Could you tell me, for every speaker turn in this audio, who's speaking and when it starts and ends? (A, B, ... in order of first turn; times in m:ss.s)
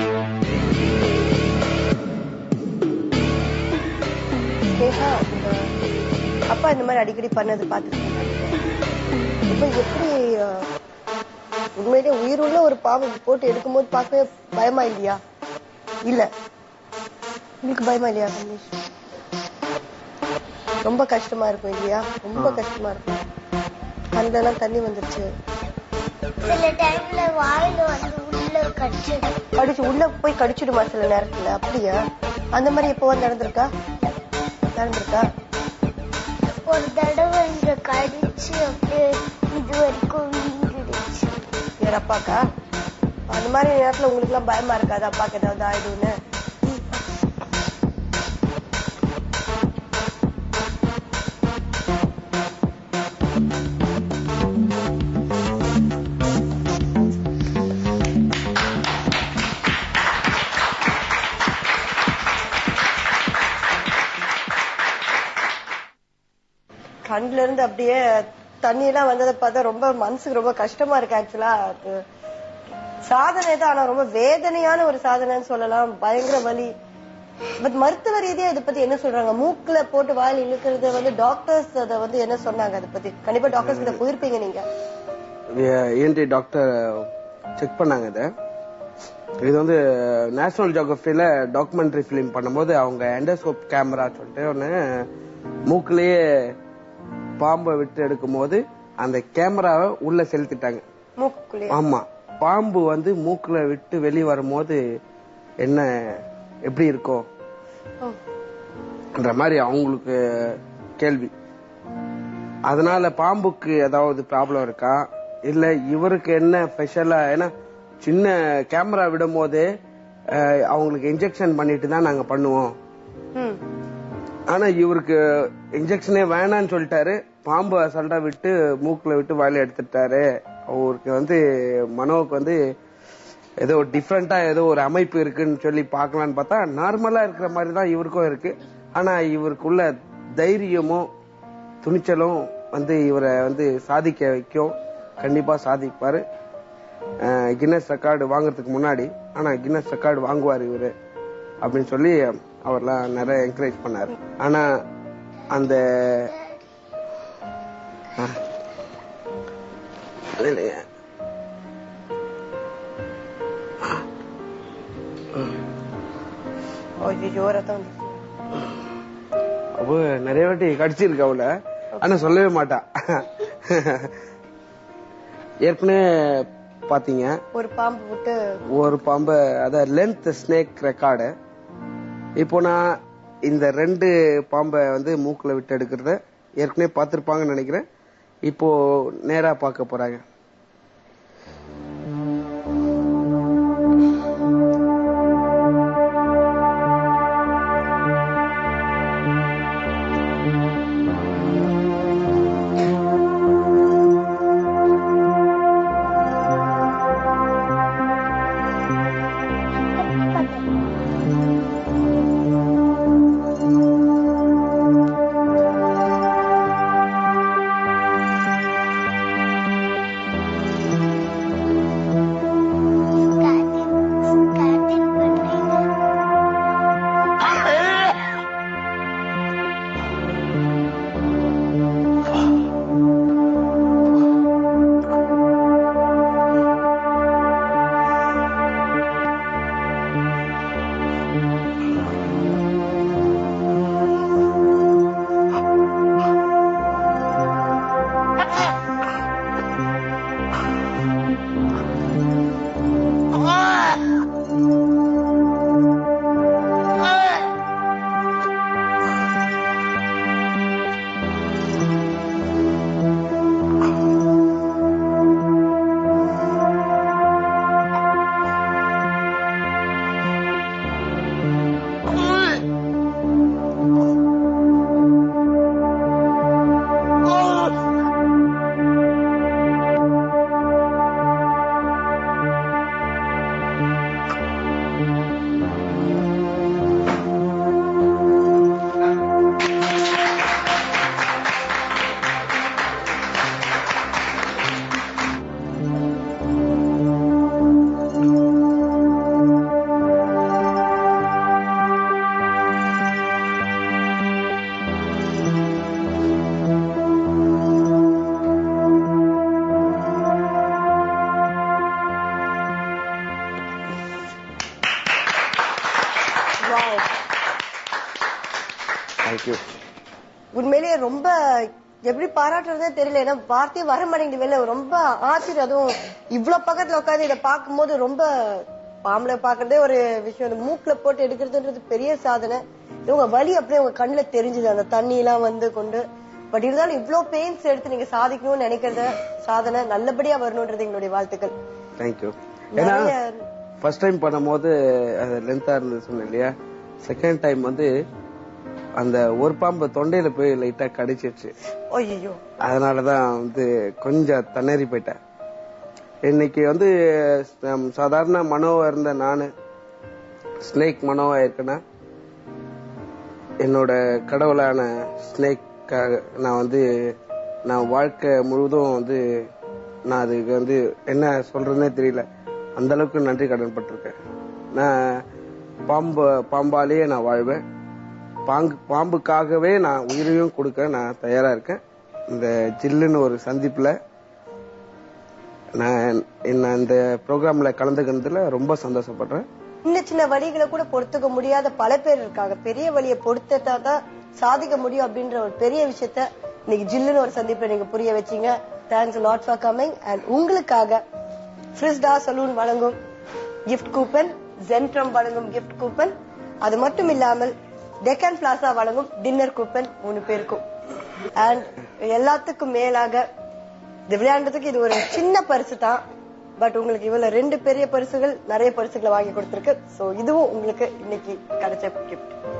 0:04.7-0:05.6 A
0:06.5-0:08.6 A
0:09.5-0:10.7 A
0:11.8-0:15.2 A
0:17.6-0:18.8 A
0:20.8-0:23.1 A
0:24.1-0:25.3 A
0:26.4-0:29.4 B
0:29.6-0:32.0 A
0:32.5-0:33.7 A
0:34.7-0:35.3 A
0:36.5-0:41.4 B
0:41.8-0:42.4 A
0:43.3-0:46.2 A
1:07.1-1:12.0 A
1:13.0-1:16.7 A
1:17.6-1:24.6 A
1:23.6-1:24.0 C
1:25.6-1:28.3 C
1:29.4-1:35.1 C
1:35.7-1:36.6 C
1:37.4-1:40.8 C
1:41.2-1:41.8 A
1:41.7-1:44.8 C
1:45.6-1:47.3 C
1:49.2-1:51.3 C
1:52.7-1:57.5 C
1:58.0-1:59.7 C
2:00.3-2:02.8 C
2:03.4-2:03.6 A
2:04.5-2:12.6 C
2:13.6-2:21.1 C
2:21.8-2:26.2 C
2:27.2-2:30.9 C
2:31.6-2:34.7 C
2:35.5-2:36.4 C
2:40.4-2:40.8 C
2:47.0-2:48.2 A
2:49.8-2:54.2 C
2:55.6-2:57.4 C
2:57.5-2:58.4 A
2:58.7-3:01.3 C
3:02.4-3:02.9 C
3:03.5-3:07.8 C
3:08.5-3:10.2 C
3:30.1-3:30.6 B
3:43.2-3:46.0 B
5:16.6-5:17.1 A
5:19.2-5:19.6 C
5:20.5-5:41.5 A
5:42.0-5:43.1 C
5:42.8-5:43.4 A
5:43.8-5:47.9 C
5:49.0-5:51.5 C
5:51.9-5:52.4 A
5:52.6-5:55.2 C
5:56.2-5:59.5 C
6:00.6-6:01.8 C
6:03.6-6:09.2 C
6:10.1-6:12.2 C
6:12.8-6:14.2 C
6:14.7-6:15.2 C
6:15.9-6:17.6 C
6:18.5-6:24.0 C
6:25.8-6:29.5 C
6:29.9-6:41.0 A
6:41.7-6:43.0 A
6:43.7-6:50.6 A
6:51.4-6:53.2 A
6:54.1-6:56.0 A
6:56.6-7:02.3 A